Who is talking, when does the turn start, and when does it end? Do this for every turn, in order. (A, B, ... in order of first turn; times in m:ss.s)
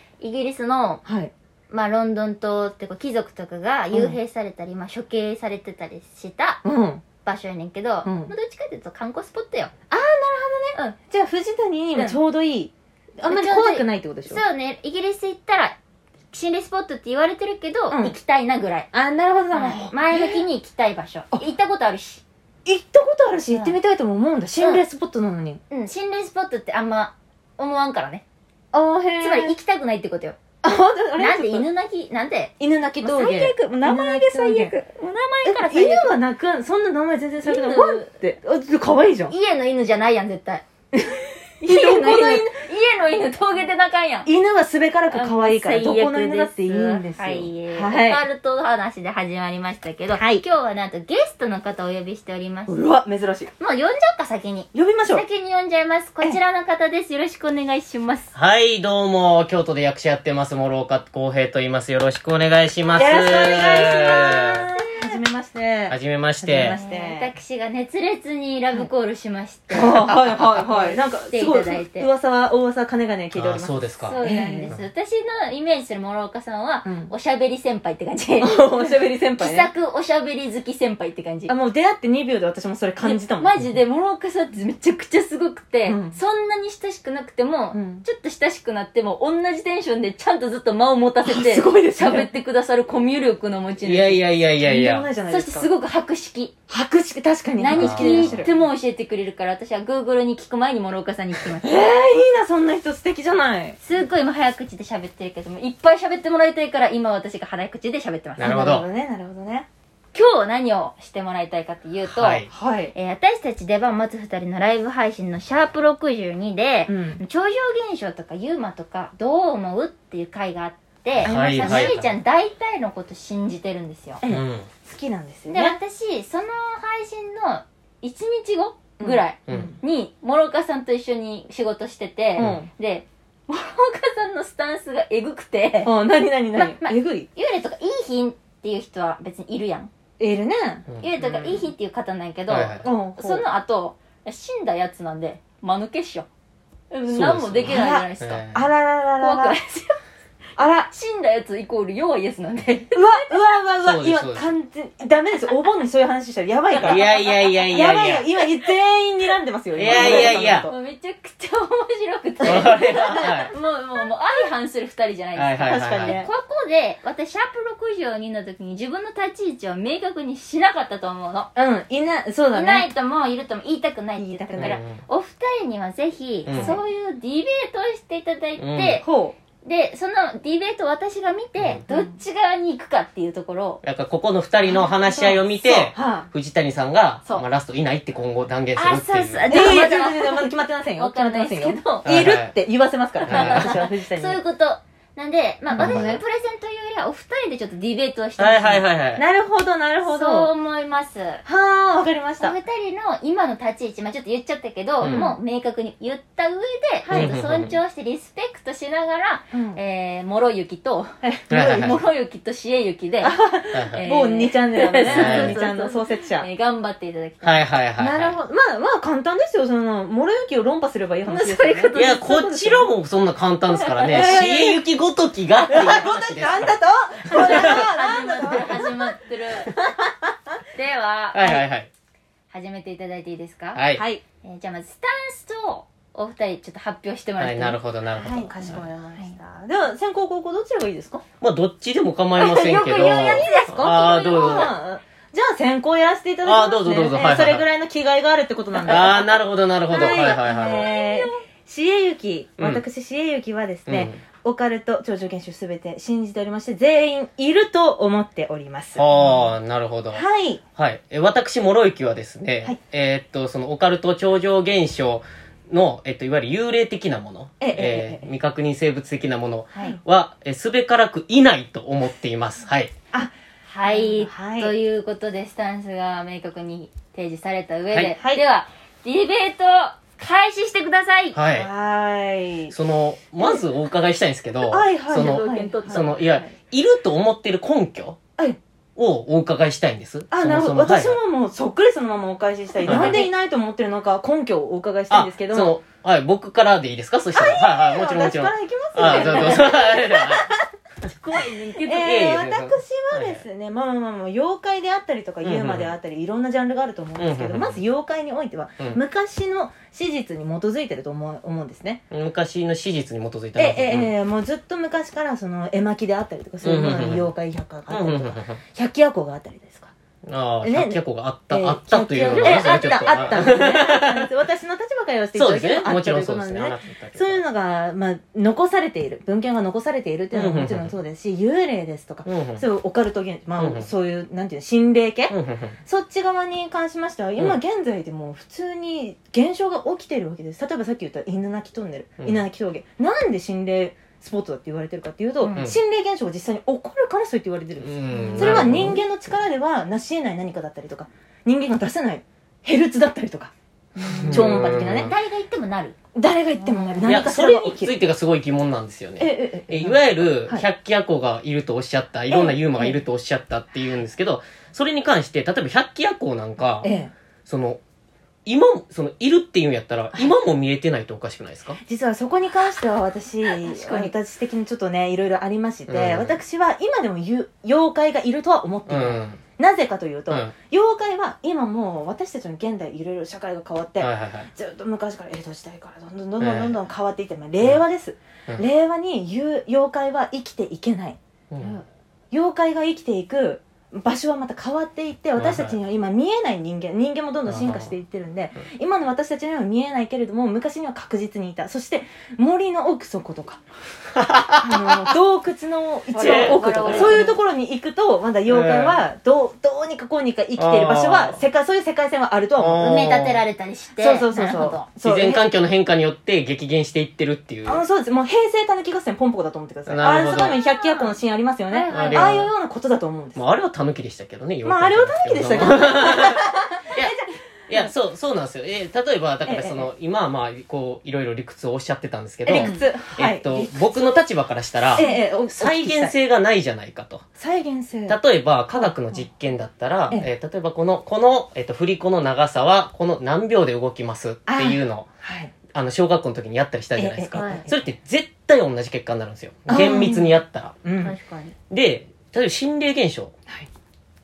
0:00.2-0:01.0 A
0:01.0-0:01.3 B
0:01.7-0:06.6 A
0:03.9-0:04.2 B
0:06.6-0:07.0 B
0:07.2-0:09.7 A
0:08.0-0:08.3 B
0:09.9-0:14.4 B
0:13.2-0:15.8 A
0:16.3-0:18.9 A
0:17.9-0:18.2 B
0:18.9-0:20.4 B
0:19.5-0:22.2 A
0:22.6-0:25.6 B
0:23.5-0:23.8 A
0:25.7-0:28.2 A
0:28.7-0:29.5 B
0:29.2-0:30.4 A
0:30.6-0:31.7 B
0:31.2-0:36.2 A
0:32.6-0:34.7 B
0:35.4-0:39.3 B
0:37.4-0:38.1 A
0:39.3-0:40.6 A
0:40.9-0:42.5 B
0:41.6-0:44.3 A
0:44.2-0:48.2 B
0:45.1-0:52.7 A
0:50.1-0:50.4 B
0:52.7-0:53.5 B
0:53.6-0:58.3 A
0:54.7-0:55.2 B
0:58.3-1:04.7 C
1:02.9-1:07.3 B
1:03.3-1:05.2 A
1:05.9-1:06.8 C
1:06.6-1:12.1 A
1:09.7-1:14.7 B
1:13.3-1:14.8 C
1:14.0-1:21.5 A
1:16.8-1:17.1 B
1:18.4-1:19.7 B
1:21.5-1:23.8 B
1:23.0-1:34.2 A
1:25.8-1:26.2 B
1:27.7-1:28.0 B
1:31.2-1:32.3 B
1:33.8-1:35.1 C
1:34.6-1:35.7 B
1:35.3-1:36.5 A
1:36.7-1:38.6 B
1:37.5-1:41.8 A
1:37.7-1:38.4 C
1:41.6-1:43.8 B
1:43.8-1:48.8 A
1:48.4-1:48.8 C
1:48.4-1:49.7 B
1:50.1-2:04.2 A
1:52.0-1:52.5 C
1:52.5-1:52.9 B
1:56.9-1:57.2 B
2:01.2-2:02.2 C
2:01.2-2:02.0 B
2:04.2-2:05.8 B
2:04.3-2:04.7 C
2:05.5-2:15.9 A
2:09.0-2:09.8 B
2:09.5-2:09.7 C
2:12.4-2:12.7 B
2:15.8-2:17.3 B
2:16.5-2:19.9 A
2:20.2-2:20.9 B
2:20.9-2:21.7 C
2:21.0-2:26.3 A
2:22.5-2:22.9 C
2:22.8-2:23.4 B
2:26.9-2:28.5 A
2:27.1-2:28.7 C
2:27.6-2:29.6 B
2:29.2-2:30.0 A
2:30.6-2:30.9 B
2:30.9-2:33.4 A
2:32.9-2:40.8 B
2:33.8-2:34.5 C
2:36.7-2:38.0 A
2:36.8-2:38.3 C
2:39.7-2:40.7 C
2:39.8-2:51.5 A
2:42.4-2:43.5 C
2:45.3-2:46.2 C
2:45.6-2:46.3 B
2:51.6-2:52.9 B
2:52.5-2:59.0 A
2:54.2-2:54.8 B
2:54.6-2:55.0 C
2:56.4-2:56.8 C
2:56.5-2:56.8 B
2:58.6-2:59.0 C
2:59.0-2:59.3 B
2:59.6-3:03.8 A
3:01.9-3:02.1 B
3:03.8-3:09.6 C
3:04.6-3:06.3 B
3:08.7-3:12.1 A
3:09.4-3:14.4 B
3:12.0-3:12.5 C
3:13.2-3:18.8 A
3:13.2-3:13.7 C
3:15.7-3:16.2 C
3:15.8-3:16.2 B
3:18.4-3:19.2 C
3:19.2-3:20.5 B
3:20.0-3:21.4 A
3:21.4-3:22.6 B
3:22.4-3:33.4 A
3:25.0-3:25.3 C
3:25.0-3:25.4 B
3:27.0-3:27.3 B
3:27.1-3:27.8 C
3:29.5-3:29.8 B
3:31.2-3:31.6 B
3:31.5-3:32.0 C
3:33.2-3:36.5 B
3:33.7-3:34.1 C
3:33.9-3:37.6 A
3:35.0-3:35.6 C
3:37.4-3:38.4 C
3:38.0-3:42.9 B
3:41.2-3:42.5 A
3:41.9-3:46.8 C
3:43.7-3:44.5 A
3:44.0-3:44.8 B
3:45.7-3:48.9 B
3:47.3-3:49.7 A
3:47.3-3:47.9 C
3:50.7-3:51.6 A
3:51.3-3:51.9 C
3:52.5-3:53.8 A
3:53.7-3:54.0 C
3:53.9-3:54.2 B
3:54.4-3:57.8 A
3:57.4-3:58.8 C
3:58.2-4:01.2 B
3:58.6-3:59.4 A
4:01.4-4:04.7 C
4:02.4-4:04.7 A
4:02.4-4:09.3 B
4:06.4-4:07.6 C
4:08.8-4:10.9 C
4:09.9-4:11.4 A
4:09.9-4:19.5 B
4:12.6-4:12.8 C
4:13.9-4:14.2 C
4:19.0-4:20.2 C
4:20.1-4:20.6 B
4:20.8-4:32.9 C
4:27.6-4:28.3 B
4:29.7-4:30.0 B
4:33.6-4:41.4 A
4:33.8-4:34.7 B
4:38.1-4:38.4 B
4:41.3-4:41.7 C
4:41.5-4:42.7 B
4:42.7-4:48.2 C
4:43.4-4:43.6 B
4:44.6-4:46.5 B
4:45.2-4:46.2 A
4:49.0-4:51.2 C
4:50.3-4:55.7 B
4:52.8-4:53.3 A
4:52.8-4:53.2 C
4:55.1-5:00.5 C
4:57.3-5:00.6 B
5:01.0-5:03.4 C
5:01.8-5:12.0 B
5:05.4-5:05.9 C
5:07.2-5:07.8 C
5:12.1-5:14.1 C
5:13.6-5:19.9 B
5:16.6-5:17.3 C
5:17.9-5:18.6 C
5:20.2-5:24.3 C
5:20.6-5:55.1 B
5:22.3-5:23.2 A
5:25.3-5:27.4 C
5:30.3-5:30.9 C
5:32.2-5:32.6 C
5:33.6-5:33.9 C
5:35.3-5:35.8 C
5:47.8-5:49.1 C
5:48.1-5:48.7 A
5:54.1-5:56.0 A
5:54.1-5:55.1 C
5:56.1-5:57.9 B
5:56.6-5:57.0 A
5:57.0-6:06.9 C
5:59.2-6:00.6 B
6:02.3-6:03.0 B
6:06.8-6:07.1 B
6:07.4-6:07.8 C
6:08.4-6:11.8 C
6:11.8-6:43.6 B
6:13.4-6:14.1 A
6:15.9-6:16.4 C
6:18.9-6:19.4 C
6:20.3-6:20.5 C
6:24.0-6:24.5 C
6:26.4-6:26.8 C
6:31.5-6:31.8 C
6:35.4-6:35.8 C
6:37.4-6:37.9 C
6:44.2-6:45.1 C
6:44.6-6:53.2 B
6:46.1-6:47.4 A
6:46.2-6:47.2 C
6:48.5-6:49.0 C
6:50.6-6:51.4 C
6:52.6-6:53.4 C
6:52.9-6:54.9 A
6:54.0-6:55.4 B
6:55.0-6:57.8 C
6:57.7-7:03.4 B
6:59.8-7:00.6 C
7:00.6-7:01.1 A
7:01.7-7:02.4 A
7:01.9-7:02.5 C
7:03.3-7:17.2 C
7:04.6-7:07.9 B
7:09.4-7:09.9 B
7:12.4-7:14.2 B
7:12.5-7:12.8 A
7:14.9-7:16.1 B
7:15.0-7:15.3 A
7:17.4-7:18.2 B
7:18.1-7:25.1 C
7:18.7-7:19.2 B
7:24.5-7:25.5 B
7:25.7-7:30.8 C
7:27.0-7:27.8 B
7:27.3-7:27.6 A
7:29.7-7:31.1 B
7:31.0-7:31.5 A
7:31.7-7:33.3 C